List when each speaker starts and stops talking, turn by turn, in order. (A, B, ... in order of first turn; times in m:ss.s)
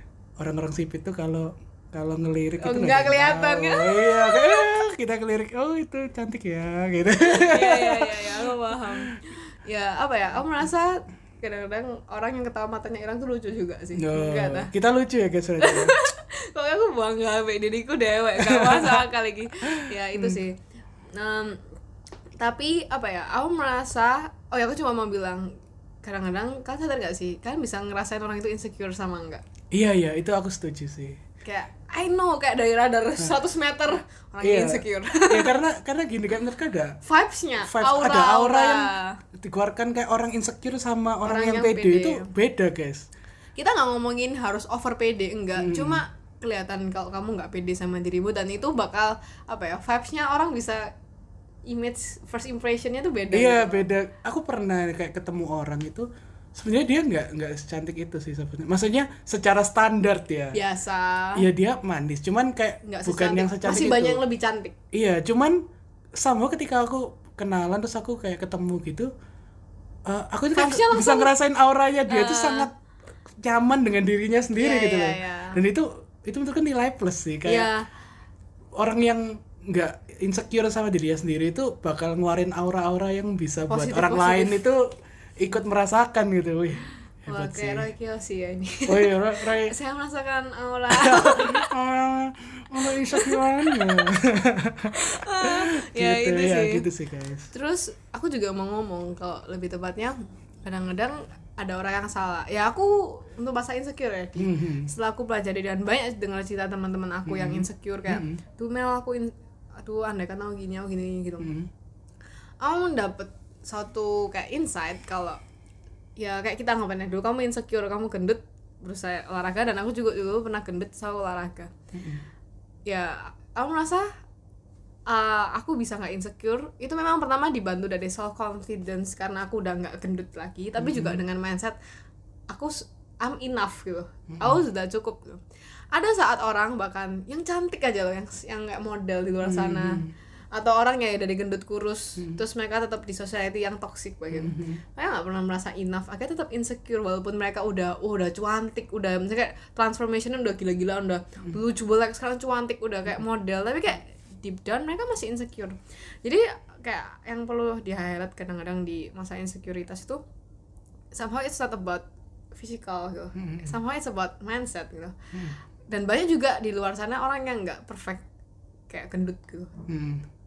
0:00.4-0:09.0 A
0:02.6-0:04.7 B
0:07.2-0:14.7 B
0:14.0-0:16.0 A
0:15.6-0:20.6 B
0:18.4-0:19.1 A
0:19.7-0:20.4 A
0:21.1-0:21.6 B
0:22.4-0:29.4 B
0:29.7-0:31.2 A
0:31.4-0:35.6 B
0:34.4-0:37.0 A
0:37.0-0:39.2 B
0:37.6-0:43.1 A
0:41.2-0:42.3 B
0:43.6-0:50.9 B
0:45.6-0:46.0 A
0:51.7-0:53.9 B
0:53.3-1:00.6 A
1:00.5-1:01.5 B
1:01.4-1:04.2 A
1:02.8-1:04.8 B
1:04.9-1:05.6 A
1:06.2-1:09.1 A
1:10.1-1:12.7 A
1:10.6-1:11.3 B
1:12.1-1:12.7 B
1:13.4-1:17.7 A
1:14.6-1:15.6 B
1:17.5-1:17.9 B
1:18.8-1:24.8 A
1:23.7-1:24.6 B
1:25.4-1:27.9 A
1:27.3-1:31.7 B
1:28.9-1:29.8 A
1:30.9-1:37.5 A
1:32.8-1:34.1 B
1:34.9-1:36.8 B
1:37.5-1:51.5 B
1:44.4-1:44.9 A
1:47.3-1:48.4 A
1:51.4-1:51.7 A
1:52.6-1:55.4 B
1:56.2-2:01.7 B
2:01.9-2:02.2 A
2:02.9-2:04.1 B
2:05.1-2:11.8 B
2:10.8-2:11.2 A
2:12.5-2:40.2 B
2:14.4-2:14.6 A
2:19.4-2:20.1 A
2:24.3-2:24.8 A
2:41.1-2:45.2 B
2:43.4-2:43.8 A
2:45.9-2:48.2 B
2:48.9-2:49.8 B
2:49.9-2:50.2 A